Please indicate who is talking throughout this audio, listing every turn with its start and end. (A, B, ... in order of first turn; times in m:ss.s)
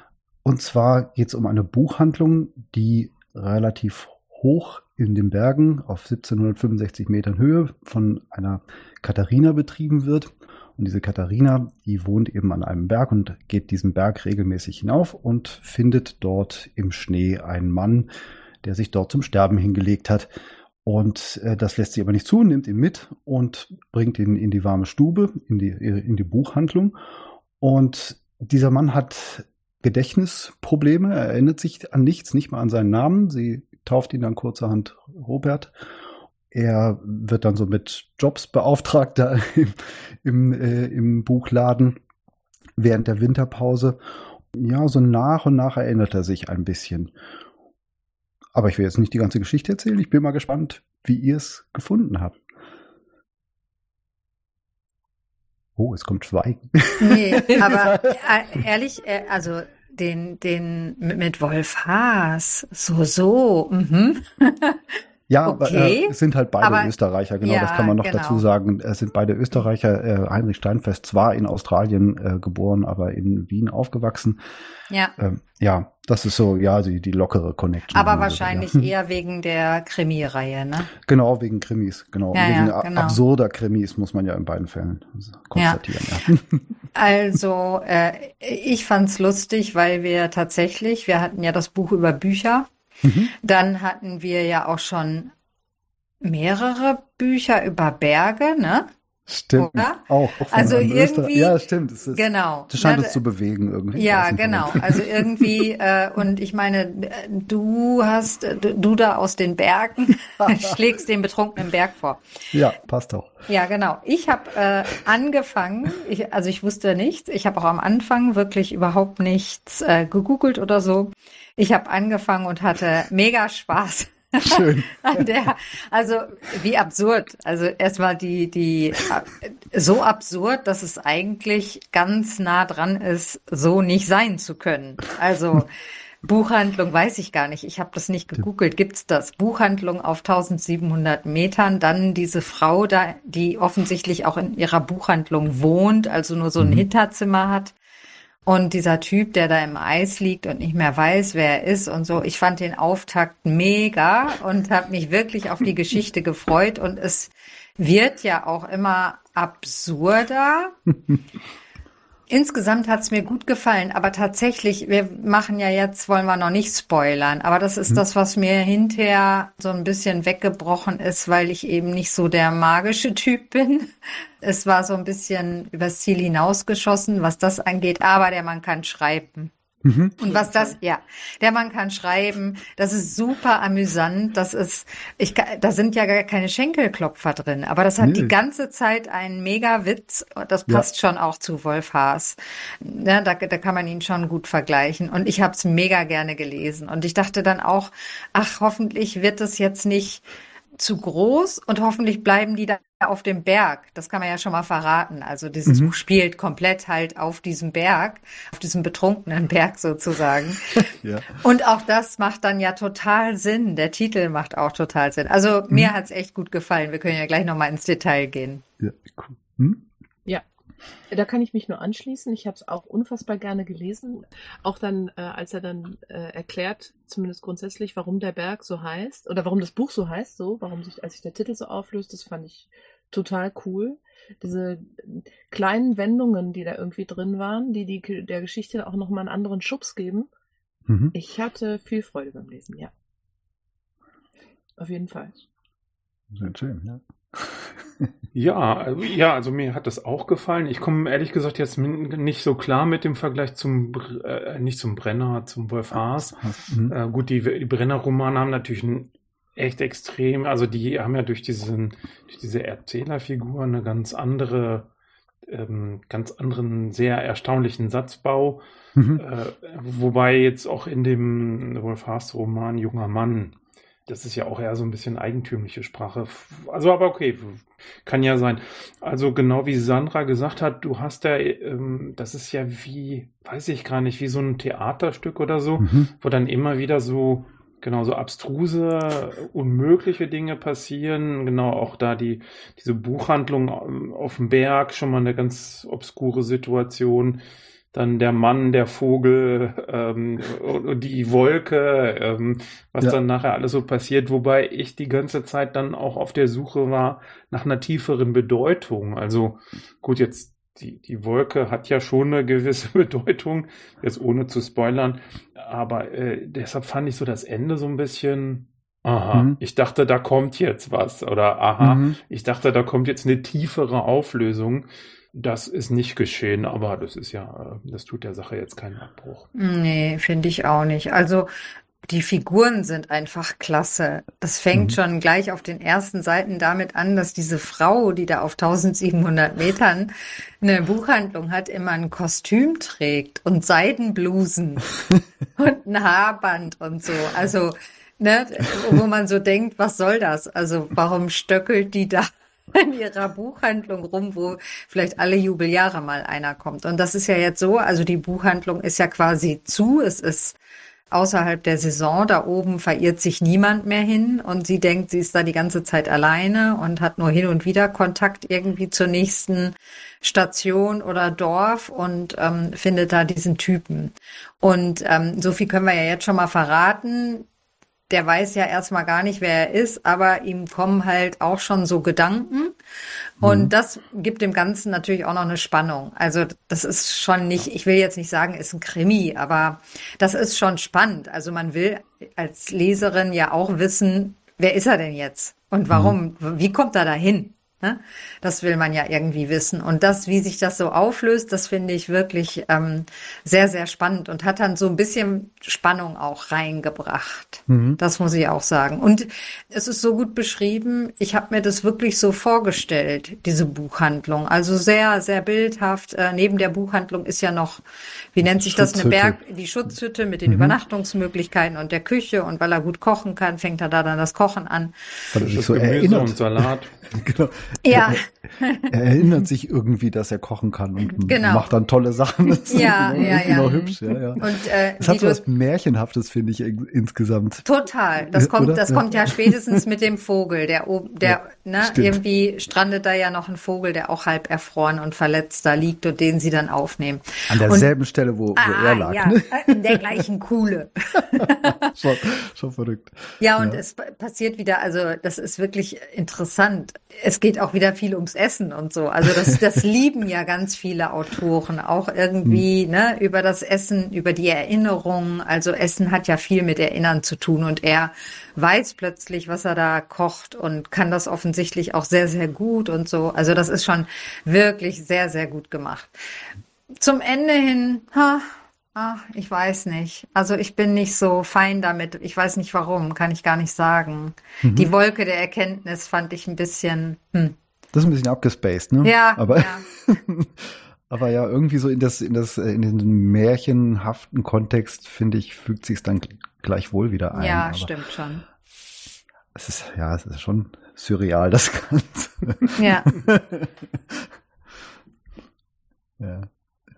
0:00.4-0:18.1 A
0:18.6-0:20.3 A
0:20.8-0:27.0 A
0:27.6-0:35.7 A
0:36.5-0:42.0 A
0:42.8-0:44.0 A
0:44.5-0:47.1 A
0:48.5-0:52.4 A
0:55.8-0:58.2 A
0:57.0-1:06.9 B
1:05.3-1:14.4 A
1:07.4-1:08.5 B
1:15.2-1:18.9 A
1:17.9-1:20.9 B
1:21.0-1:26.6 A
1:22.3-1:23.2 B
1:25.6-1:25.8 B
1:27.0-1:32.7 B
1:33.0-1:33.3 A
1:33.4-1:35.3 B
1:36.2-1:38.9 B
1:39.3-1:45.7 A
1:39.6-1:41.6 B
1:42.1-1:43.2 B
1:44.0-1:52.2 B
1:52.5-1:53.4 A
1:53.5-2:15.7 B
2:04.4-2:05.2 A
2:16.2-2:27.8 B
2:26.6-2:26.8 A
2:28.5-2:40.8 B
2:42.3-2:59.5 B
2:59.8-3:00.2 A
3:00.2-3:20.2 B
3:00.3-3:00.8 C
3:08.0-3:08.4 A
3:20.8-3:38.6 B
3:25.7-3:25.9 A
3:30.8-3:31.3 A
3:38.8-3:39.8 A
3:41.1-4:00.3 C
4:00.9-4:01.2 A
4:01.1-4:02.9 C
4:04.8-4:05.4 C
4:06.3-4:08.1 A
4:08.4-4:24.9 D
4:16.0-4:16.9 A
4:25.5-4:28.6 D
4:29.0-4:29.2 A
4:29.2-4:33.6 D
4:34.1-4:57.4 D
4:45.8-4:46.1 A
4:57.9-5:29.5 D
5:19.3-5:19.6 A
5:21.8-5:22.2 A
5:29.6-5:31.5 B
5:32.1-5:44.9 B
5:45.6-6:00.6 B
6:01.1-6:17.5 B
6:18.1-6:22.8 B
6:23.4-6:57.8 B
6:23.4-6:23.7 A
6:35.9-6:36.2 A
6:47.7-6:48.0 A
6:58.3-7:05.3 B
6:58.4-6:59.4 A
7:00.5-7:00.8 A
7:05.3-7:08.2 A
7:05.4-7:06.9 D
7:07.8-7:09.3 B
7:08.9-7:17.6 A
7:11.2-7:11.7 B
7:12.5-7:15.4 B
7:17.6-7:27.9 B
7:18.3-7:19.8 A
7:21.2-7:22.2 A
7:27.5-7:30.2 A
7:28.6-7:31.9 B
7:31.3-7:33.8 A
7:33.4-7:56.5 B
7:57.0-8:07.6 B
8:04.6-8:04.9 A
8:07.9-8:17.9 A
8:09.0-8:09.9 B
8:17.3-8:18.4 B
8:19.6-8:24.3 A
8:22.8-8:23.1 B
8:26.2-8:26.5 A